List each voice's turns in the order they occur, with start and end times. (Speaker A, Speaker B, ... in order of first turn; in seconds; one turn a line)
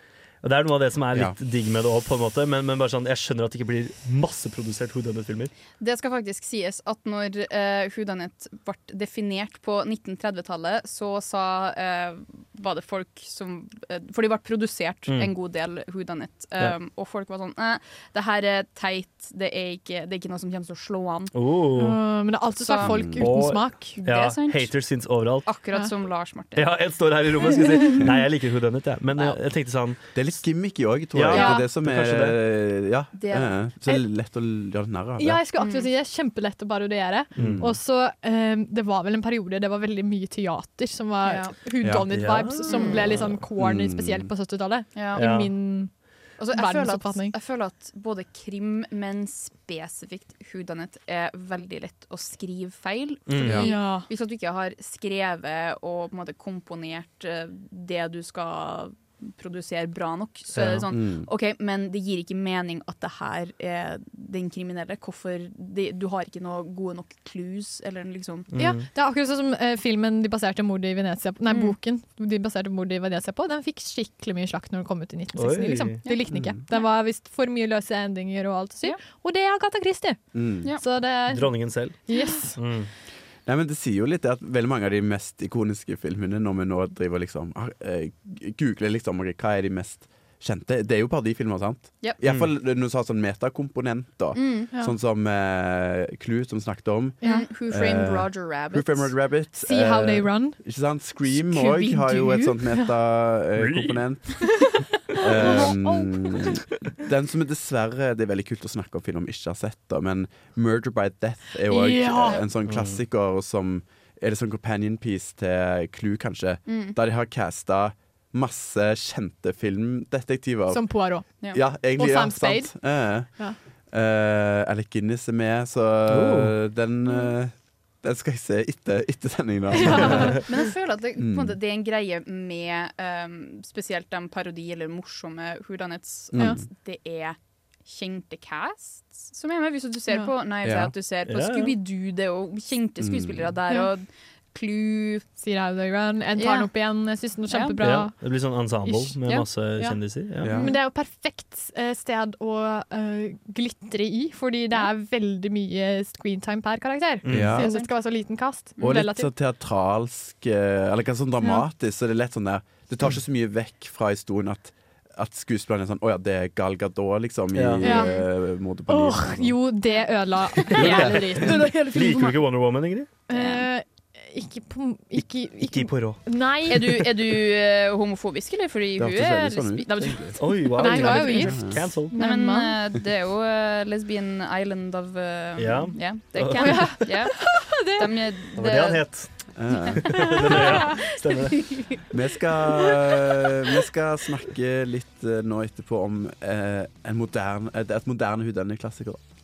Speaker A: 0.4-5.5
Speaker B: 5.8-21.3
Speaker A: 15.1-15.3
Speaker A: 21.3-22.0
Speaker C: 21.8-23.9
Speaker B: 22.6-22.9
Speaker D: 22.8-23.2
Speaker A: 23.1-25.5
Speaker B: 24.0-24.7
Speaker B: 25.4-26.7
Speaker A: 26.5-30.0
Speaker D: 30.1-35.4
Speaker A: 31.1-32.4
Speaker C: 31.3-31.6
Speaker B: 33.1-33.5
Speaker C: 35.2-45.9
Speaker B: 35.6-35.9
Speaker A: 37.4-37.6
Speaker D: 37.4-37.8
Speaker B: 41.2-41.5
Speaker D: 41.8-42.1
Speaker A: 42.1-43.3
Speaker B: 42.7-43.1
Speaker D: 43.6-44.3
Speaker B: 44.9-45.2
Speaker A: 45.1-45.5
Speaker B: 46.4-68.5
Speaker C: 46.5-47.4
Speaker A: 53.3-53.6
Speaker C: 53.6-54.1
Speaker A: 60.5-60.9
Speaker D: 60.9-61.3
Speaker A: 68.5-68.8
Speaker C: 68.6-80.2
Speaker B: 71.5-71.8
Speaker A: 75.3-76.0
Speaker D: 76.3-76.6
Speaker D: 80.3-80.7
Speaker C: 80.8-82.6
Speaker A: 81.3-82.0
Speaker A: 82.5-82.9
Speaker D: 83.5-123.3
Speaker A: 92.2-92.5
Speaker B: 94.3-94.7
Speaker C: 97.2-97.5
Speaker B: 97.2-99.1
Speaker C: 99.6-100.6
Speaker B: 101.4-102.5
Speaker A: 103.6-104.0
Speaker C: 104.6-106.5
Speaker C: 111.7-112.4
Speaker A: 112.7-113.0
Speaker B: 116.7-117.0
Speaker C: 120.7-121.2
Speaker C: 122.0-122.7
Speaker D: 123.9-130.4
Speaker A: 126.1-126.5
Speaker C: 129.7-130.4
Speaker A: 130.1-130.4
Speaker B: 130.4-145.2
Speaker D: 131.2-131.6
Speaker D: 136.3-136.7
Speaker D: 140.6-140.9
Speaker A: 141.3-141.8
Speaker D: 143.0-143.5
Speaker C: 145.4-148.2
Speaker B: 146.3-146.7
Speaker B: 147.5-147.8
Speaker A: 147.8-150.5
Speaker C: 148.8-149.2
Speaker C: 149.8-159.3
Speaker D: 150.4-150.7
Speaker B: 150.5-150.8
Speaker A: 157.2-157.6
Speaker D: 157.2-157.7
Speaker B: 157.5-157.9
Speaker D: 158.8-169.6
Speaker A: 167.5-167.9
Speaker C: 167.8-168.2
Speaker B: 167.9-168.2
Speaker C: 168.9-172.3
Speaker A: 170.7-173.1
Speaker D: 170.7-171.6
Speaker C: 173.3-177.0
Speaker B: 173.3-173.7
Speaker A: 175.2-176.2
Speaker B: 176.7-189.0
Speaker D: 179.0-180.4
Speaker A: 180.4-182.1
Speaker C: 180.8-182.8
Speaker D: 181.2-181.8
Speaker A: 185.6-187.1
Speaker C: 186.6-188.1
Speaker A: 188.6-189.3
Speaker D: 189.5-190.3
Speaker B: 189.9-191.0
Speaker A: 189.9-192.0
Speaker D: 192.1-199.2